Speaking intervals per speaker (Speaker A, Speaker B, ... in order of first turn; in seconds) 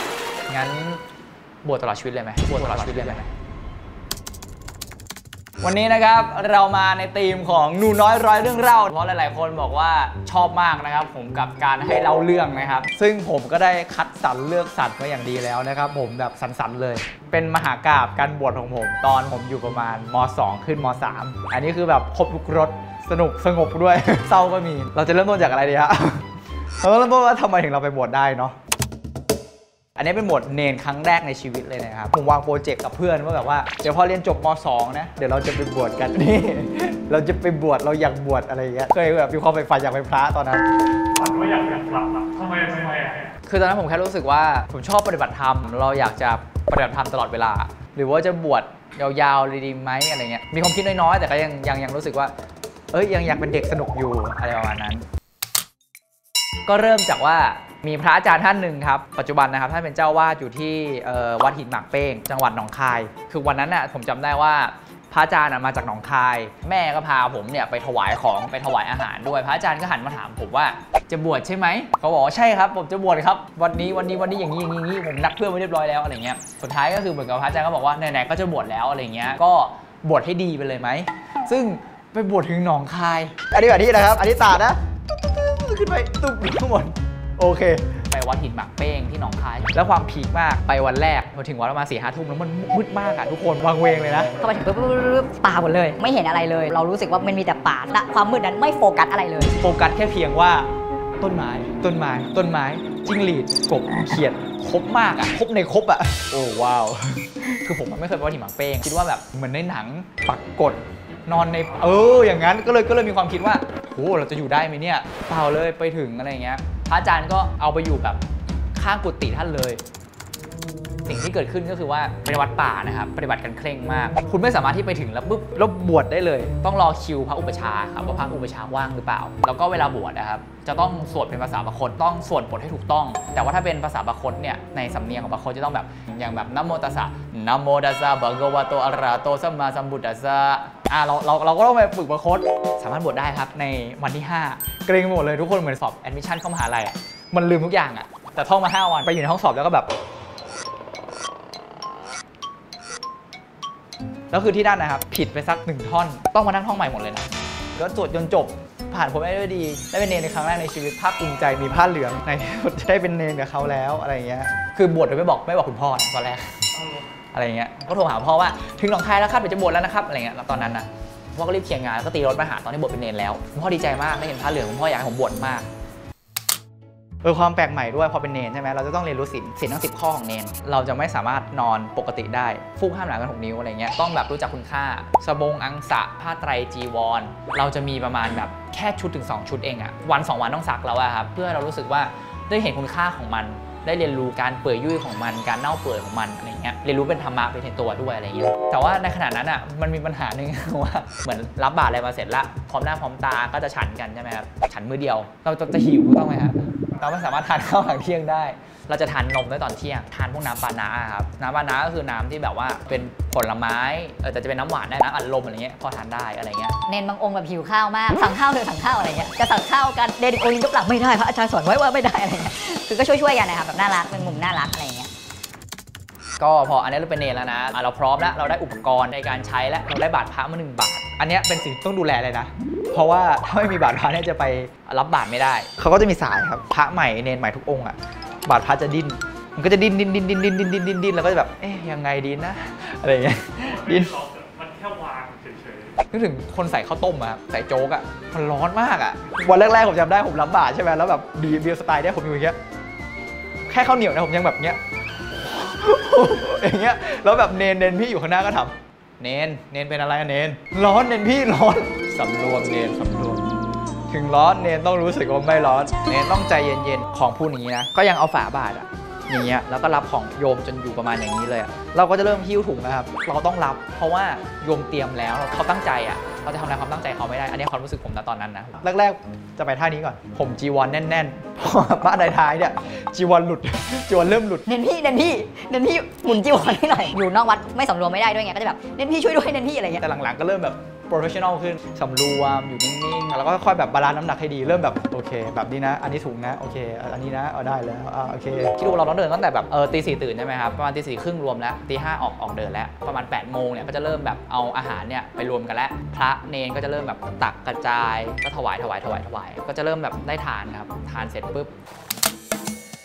Speaker A: 0.5-1.0, 1.6-3.3, 5.6-28.6, 30.0-40.6, 43.5-52.3, 52.9-55.0, 56.6-94.4, 99.6-118.2, 118.7-119.8, 121.0-149.9, 154.3-166.7, 167.3-175.7, 177.2-216.8, 226.4-244.2, 246.1-252.6, 253.7-263.5, 264.1-284.6, 290.0-311.7
Speaker B: 2.8-3.2, 94.4-99.5, 216.8-225.1, 284.7-290.0
Speaker C: 41.2-43.3, 244.2-245.9